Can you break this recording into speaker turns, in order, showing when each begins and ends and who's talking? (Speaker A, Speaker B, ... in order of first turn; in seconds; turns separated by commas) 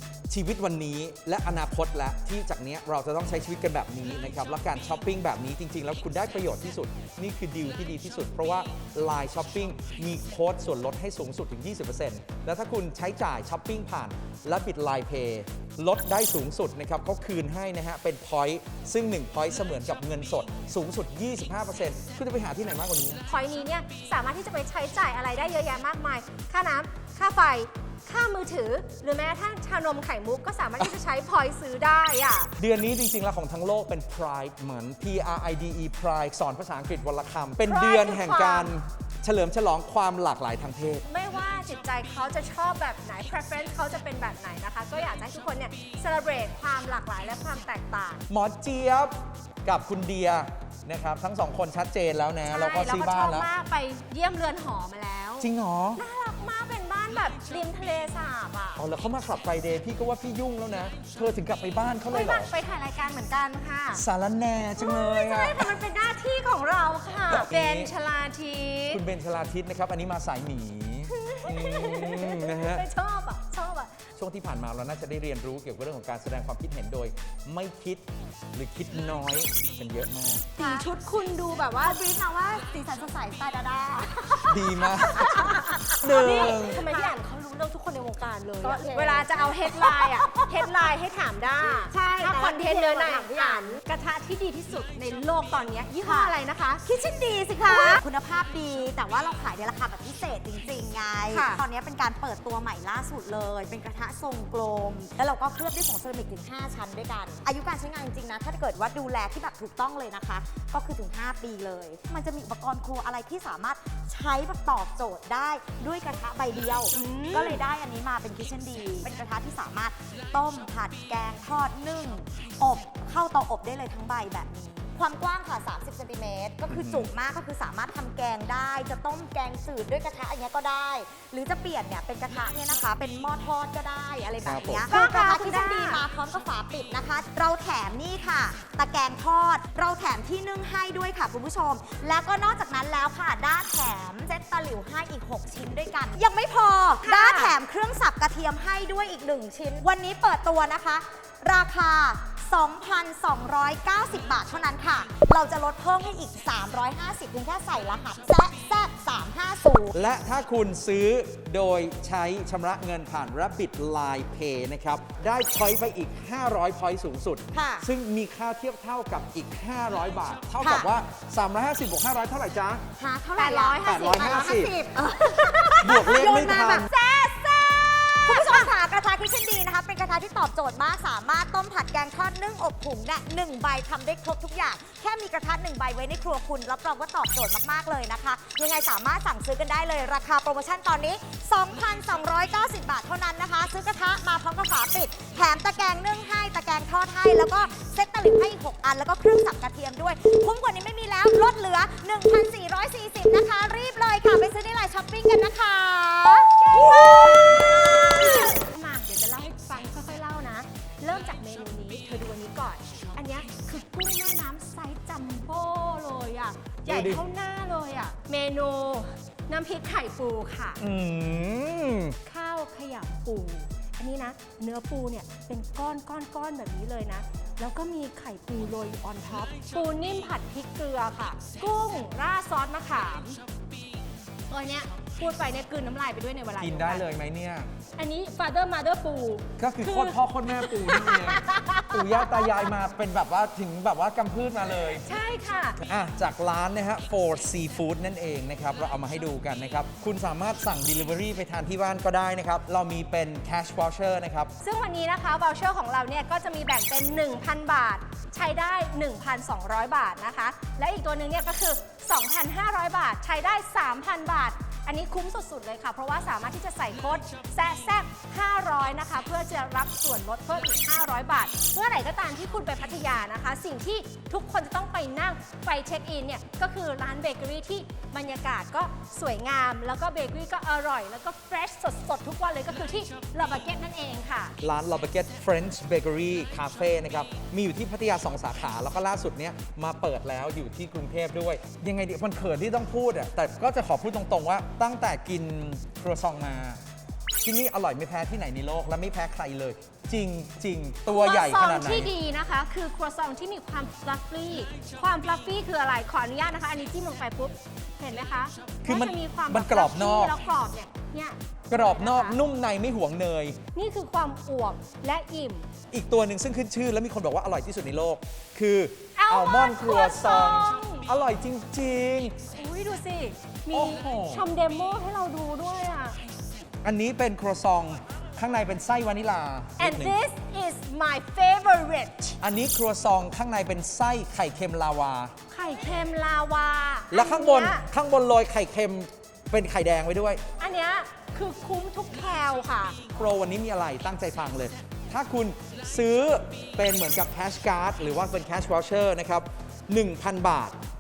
Speaker A: 0.3-23.2, Speaker B: 23.3-32.5, Speaker A: 32.6-41.0, Speaker B: 37.6-38.7, Speaker B: 41.1-48.2, Speaker A: 48.3-53.5, Speaker B: 52.5-58.8, Speaker A: 55.4-56.0, Speaker A: 58.8-62.5, Speaker B: 62.1-64.0, Speaker A: 64.0-65.8, Speaker B: 64.8-69.0, Speaker A: 67.3-67.9, Speaker A: 68.9-72.9, Speaker B: 71.1-74.0, Speaker A: 74.2-80.5, Speaker B: 80.6-82.0, Speaker C: 80.6-80.9, Speaker C: 81.8-87.2, Speaker A: 84.5-86.8, Speaker B: 85.1-96.8, Speaker C: 88.6-90.7, Speaker C: 91.6-93.8, Speaker C: 96.0-159.9, Speaker B: 97.7-98.0, Speaker B: 101.3-101.6, Speaker B: 116.9-117.6, Speaker A: 126.7-127.1, Speaker A: 134.4-134.9, Speaker B: 134.9-136.0, Speaker B: 147.0-147.5, Speaker A: 159.9-172.8, Speaker C: 167.5-167.9, Speaker C: 170.6-170.9, Speaker C: 173.0-176.9, Speaker B: 173.4-176.0, Speaker A: 174.0-174.7, Speaker A: 175.8-176.9, Speaker B: 176.9-178.7, Speaker C: 178.2-208.6, Speaker B: 206.6-220.8, Speaker A: 216.8-217.2, Speaker A: 220.8-222.2, Speaker B: 222.2-233.4, Speaker B: 234.5-237.1, Speaker A: 236.6-237.7, Speaker B: 238.0-242.7, Speaker A: 239.6-245.1, Speaker B: 244.8-245.8, Speaker A: 245.8-254.5, Speaker B: 254.6-284.6, Speaker A: 284.6-296.8, Speaker A: 297.4-302.1, Speaker B: 301.1-312.4, Speaker A: 308.9-310.3, Speaker A: 311.7-313.6, Speaker B: 313.7-315.7, Speaker A: 315.9-322.4, Speaker B: 319.2-321.1, Speaker B: 322.5-326.2, Speaker A: 323.7-324.4, Speaker A: 326.8-330.2, Speaker B: 329.8-332.4, Speaker A: 332.4-335.3, Speaker B: 335.5-337.8, Speaker A: 337.1-340.4, Speaker B: 340.6-343.0, Speaker A: 343.1-350.8